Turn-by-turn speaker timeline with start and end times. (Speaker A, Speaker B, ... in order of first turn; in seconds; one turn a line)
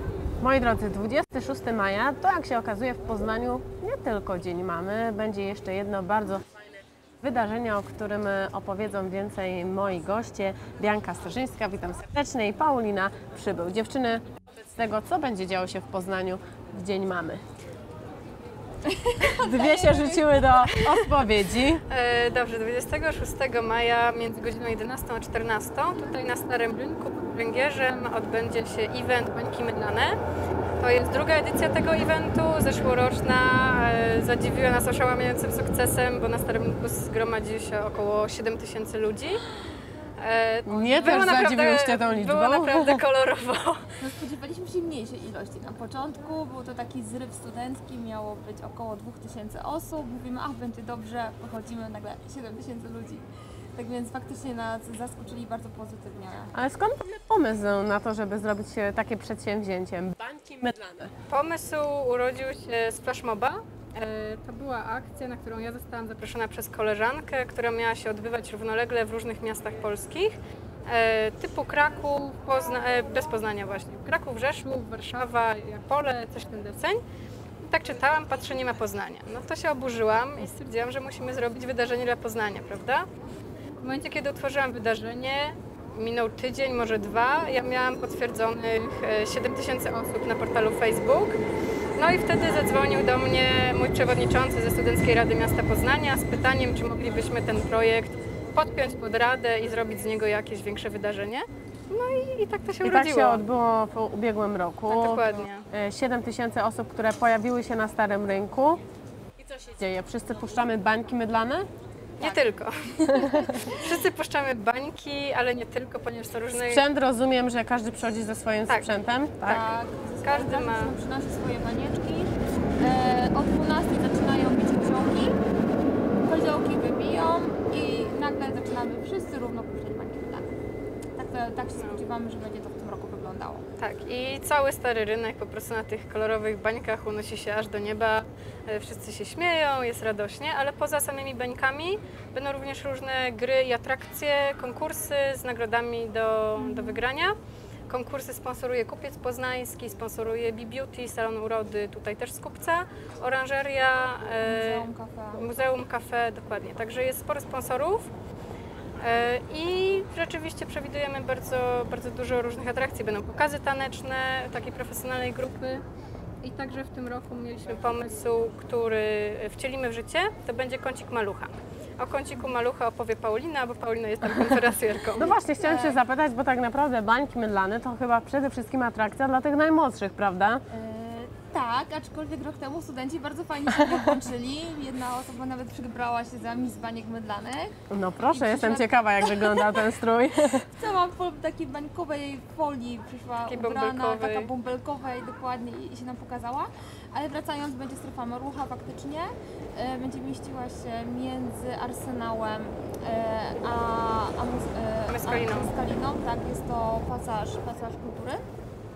Speaker A: 0.4-17.4
Speaker B: 18.9-20.2
Speaker A: 19.3-21.8
Speaker C: 21.9-30.2
Speaker C: 30.8-39.4
Speaker C: 40.2-43.9
Speaker A: 40.6-43.0
Speaker B: 40.8-41.5
Speaker B: 44.0-56.5
Speaker A: 56.5-61.1
Speaker C: 61.3-70.3
Speaker C: 70.9-77.0
Speaker C: 77.6-83.0
Speaker C: 83.8-91.4
Speaker C: 91.9-103.4
Speaker A: 102.8-108.8
Speaker C: 104.9-105.6
Speaker A: 109.4-111.7
Speaker C: 112.2-113.1
Speaker B: 112.2-114.0
Speaker C: 113.7-116.8
Speaker A: 116.5-119.6
Speaker B: 119.4-125.4
Speaker C: 120.2-120.9
Speaker B: 126.2-130.5
Speaker B: 131.2-133.6
Speaker C: 133.8-147.3
Speaker B: 146.6-147.0
Speaker C: 147.9-158.1
Speaker B: 154.4-155.6
Speaker C: 159.0-165.8
Speaker C: 166.4-175.3
Speaker A: 175.1-180.6
Speaker B: 175.2-176.0
Speaker B: 180.7-187.8
Speaker A: 183.8-184.1
Speaker A: 187.9-190.7
Speaker B: 188.3-189.9
Speaker B: 190.6-208.4
Speaker C: 193.4-194.5
Speaker C: 205.1-205.7